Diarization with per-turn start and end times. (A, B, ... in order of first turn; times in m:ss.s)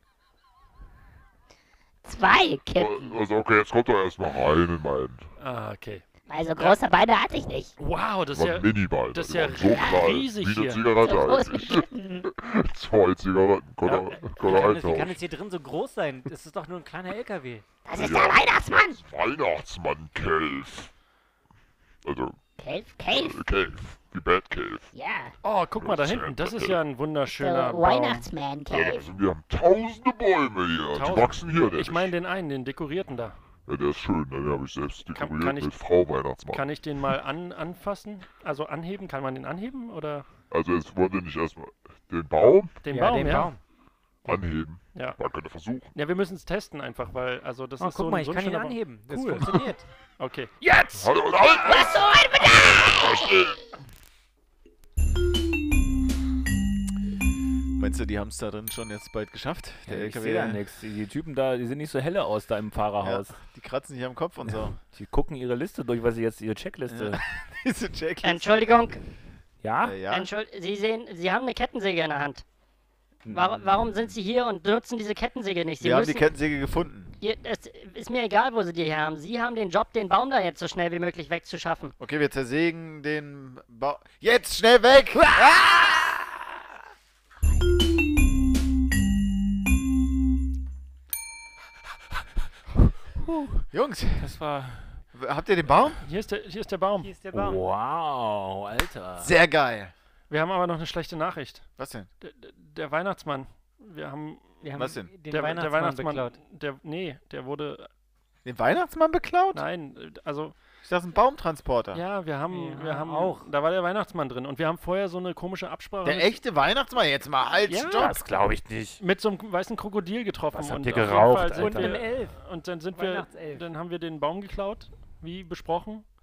0:02.0-0:03.2 A
0:02.7-0:05.3 B
0:05.4-0:06.0 C
0:06.3-0:07.7 A
0:07.8-0:11.1 C
0:08.3-0:15.2 B
0:09.6-0:10.2 A
0:11.0-0:12.3 A
0:13.9-0:17.7 D
0:17.9-0:19.0 A
0:17.9-0:20.9 B
0:22.0-0:22.4 B
0:22.6-0:23.4 A
0:23.1-0:24.9 B
0:24.9-0:25.3 A
0:25.4-0:28.2 C
0:25.8-0:26.8 B
0:27.3-0:29.1 A
0:28.7-0:32.2 B
0:30.9-0:33.4 C
0:33.7-0:36.8 B
0:35.1-0:40.3 C
0:40.5-0:42.8 B
0:42.8-0:43.6 C
0:42.9-0:43.6 D
0:44.2-0:45.2 C
0:44.2-0:45.9 B
0:45.9-0:50.5 C
0:47.8-0:49.9 D
0:50.6-0:53.4 A
0:50.9-0:53.6 B
0:57.8-1:00.6 E
0:59.9-1:03.4 F
1:03.0-1:04.8 E
1:04.8-1:07.2 F
1:06.9-1:08.9 E
1:08.2-1:09.0 G
1:09.6-1:10.0 F
1:09.8-1:10.3 E
1:10.1-1:12.4 G
1:13.2-1:13.8 F
1:13.3-1:16.3 G
1:15.8-1:17.1 E
1:17.2-1:21.9 G
1:22.0-1:25.9 E
1:33.2-1:33.6 F
1:33.7-1:34.4 E
1:34.2-1:35.0 F
1:35.1-1:36.0 E
1:36.0-1:37.2 C
1:37.0-1:37.7 D
1:37.3-1:39.3 F
1:39.2-1:39.9 E
1:40.3-1:41.7 C
1:41.8-1:42.1 E
1:42.2-1:44.6 C
1:44.6-1:46.4 D
1:44.8-1:45.1 E
1:45.3-1:47.9 C
1:48.4-1:49.7 E
1:49.5-1:50.6 C
1:50.8-1:52.0 E
1:51.9-1:56.4 C
1:52.5-1:53.5 D
1:56.0-1:58.2 E
1:57.7-1:58.2 C
1:58.0-1:59.0 F
1:59.0-2:06.0 C
2:00.5-2:02.0 F
2:01.6-2:03.7 D